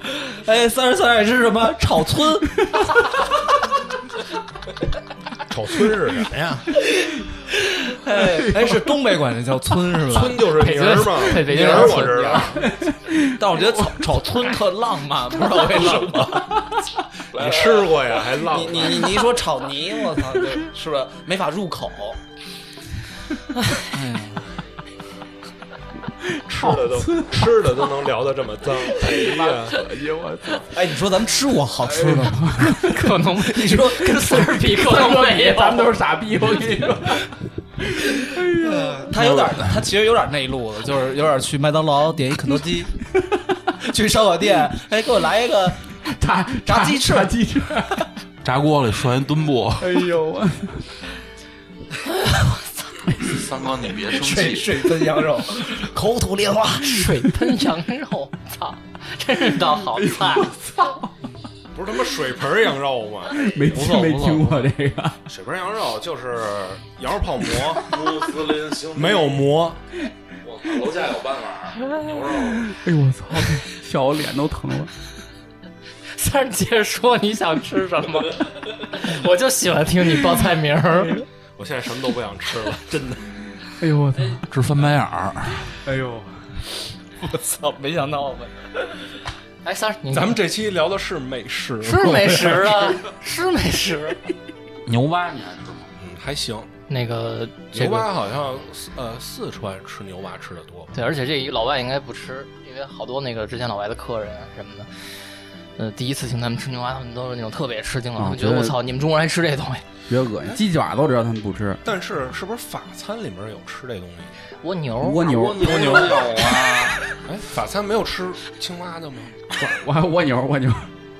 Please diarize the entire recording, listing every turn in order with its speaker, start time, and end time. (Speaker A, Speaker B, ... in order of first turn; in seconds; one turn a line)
Speaker A: 0.2-2.7
Speaker B: 5.5-6.8
Speaker A: 7.6-10.5
Speaker C: 8.4-8.7
Speaker B: 10.0-12.7
Speaker D: 10.5-12.6
Speaker A: 11.4-12.4
Speaker C: 12.6-14.0
Speaker A: 13.3-16.6
Speaker B: 15.8-16.2
Speaker B: 17.3-19.2
Speaker E: 17.4-17.9
Speaker A: 18.4-22.2
Speaker A: 23.9-24.5
Speaker B: 26.4-29.8
Speaker C: 26.5-27.4
Speaker C: 28.9-30.8
Speaker A: 30.7-32.9
Speaker C: 31.9-33.1
Speaker D: 32.9-35.9
Speaker A: 33.5-34.7
Speaker C: 34.6-39.1
Speaker A: 38.3-43.0
Speaker E: 39.2-39.6
Speaker A: 43.7-45.8
Speaker C: 46.0-48.1
Speaker A: 46.6-47.3
Speaker E: 48.4-50.0
Speaker C: 49.8-50.9
Speaker E: 53.1-54.9
Speaker A: 54.1-57.1
Speaker D: 56.9-60.5
Speaker C: 59.9-61.1
Speaker B: 61.7-63.9
Speaker C: 63.3-65.2
Speaker A: 63.7-64.6
Speaker B: 65.2-68.0
Speaker E: 67.8-69.5
Speaker B: 68.9-69.8
Speaker E: 70.4-72.7
Speaker C: 72.6-74.9
Speaker D: 76.1-81.2
Speaker B: 81.6-83.3
Speaker C: 83.8-84.4
Speaker E: 84.3-85.7
Speaker C: 85.8-86.3
Speaker A: 87.2-88.5
Speaker D: 89.6-90.4
Speaker B: 90.1-93.0
Speaker D: 91.8-94.2
Speaker E: 94.8-95.9
Speaker B: 96.0-96.7
Speaker D: 96.9-98.1
Speaker B: 97.7-100.9
Speaker D: 100.9-104.9
Speaker D: 105.8-109.8
Speaker C: 108.2-108.8
Speaker C: 110.1-111.8
Speaker B: 111.8-114.3
Speaker D: 114.6-115.3
Speaker C: 115.0-116.1
Speaker E: 115.2-117.0
Speaker B: 115.6-116.1
Speaker B: 117.2-119.7
Speaker C: 119.6-120.9